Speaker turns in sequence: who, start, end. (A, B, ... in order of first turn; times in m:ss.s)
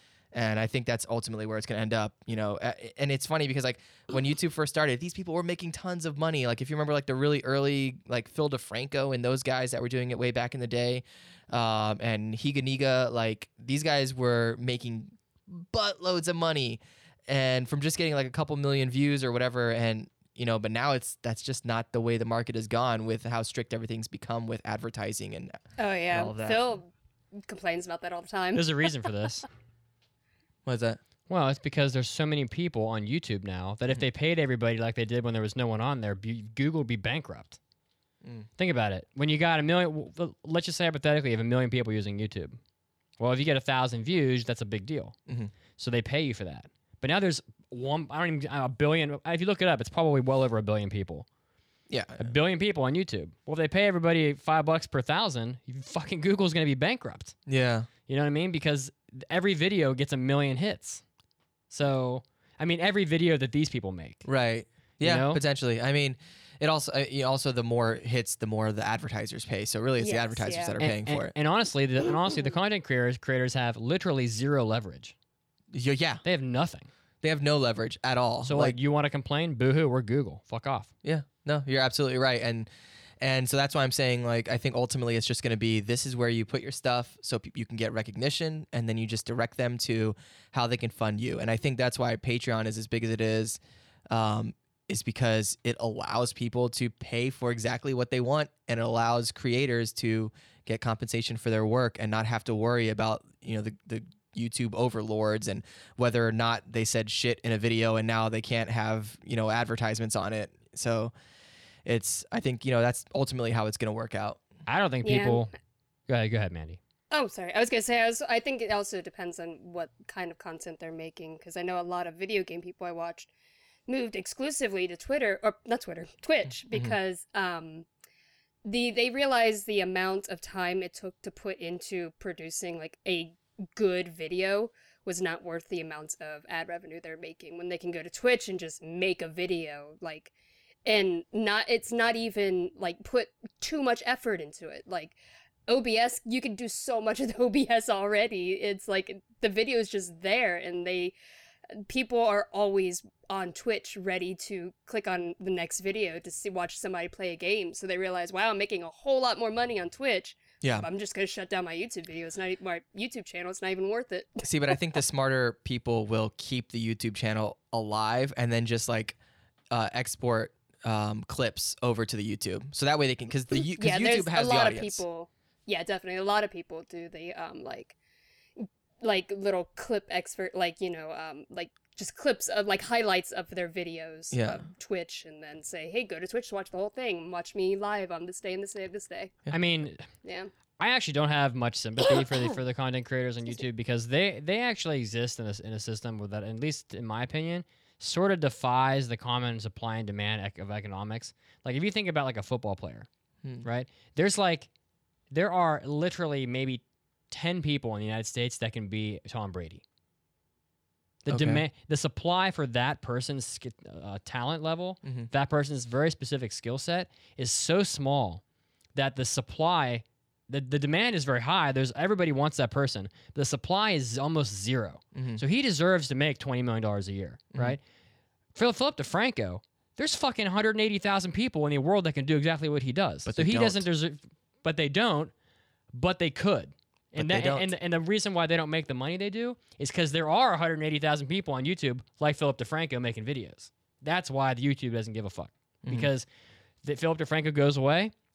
0:00.3-0:25.6 A
0:25.8-0:26.9 B
0:26.1-0:26.6 A
0:27.4-0:28.9 B
0:28.5-0:29.4 C
0:30.6-0:31.0 A
0:31.3-0:37.6 C
0:38.6-0:42.6 C
0:43.2-0:45.1 C
0:45.8-0:51.3 C
0:51.9-0:52.3 A
0:52.2-0:57.4 C
0:57.5-0:57.9 A
0:58.1-1:01.0 C
1:01.7-1:04.2 C
1:04.2-1:11.3 A
1:05.0-1:05.4 C
1:10.0-1:10.7 B
1:10.8-1:15.1 C
1:15.7-1:16.2 A
1:16.2-1:16.9 C
1:17.2-1:18.8 A
1:18.4-1:20.9 C
1:21.0-1:22.7 A
1:23.2-1:51.1 A
1:51.8-1:54.4 A
1:54.6-1:55.5 C
1:55.0-1:55.5 B
1:56.1-1:56.8 C
1:57.1-2:03.3 B
2:03.9-2:07.8 B
2:06.7-2:07.0 A
2:08.6-2:20.3 B
2:20.8-2:25.2 B
2:25.7-2:31.1 B
2:31.7-2:44.8 B
2:44.4-2:49.2 A
2:49.7-2:55.0 A
2:53.6-2:58.0 B
2:58.6-3:09.4 B
3:04.3-3:04.6 A
3:09.5-3:10.1 C
3:10.2-3:10.5 B
3:10.8-3:23.1 C
3:23.6-3:24.7 C
3:25.3-3:29.8 C
3:31.2-3:38.4 C
3:31.3-3:31.6 A
3:35.0-3:35.3 A
3:38.9-3:47.8 C
3:45.1-3:45.4 A
3:48.5-3:55.3 C
3:53.2-3:53.9 A
3:55.9-4:06.2 C
3:57.2-3:57.7 A
4:05.8-4:06.1 A
4:06.8-4:08.1 C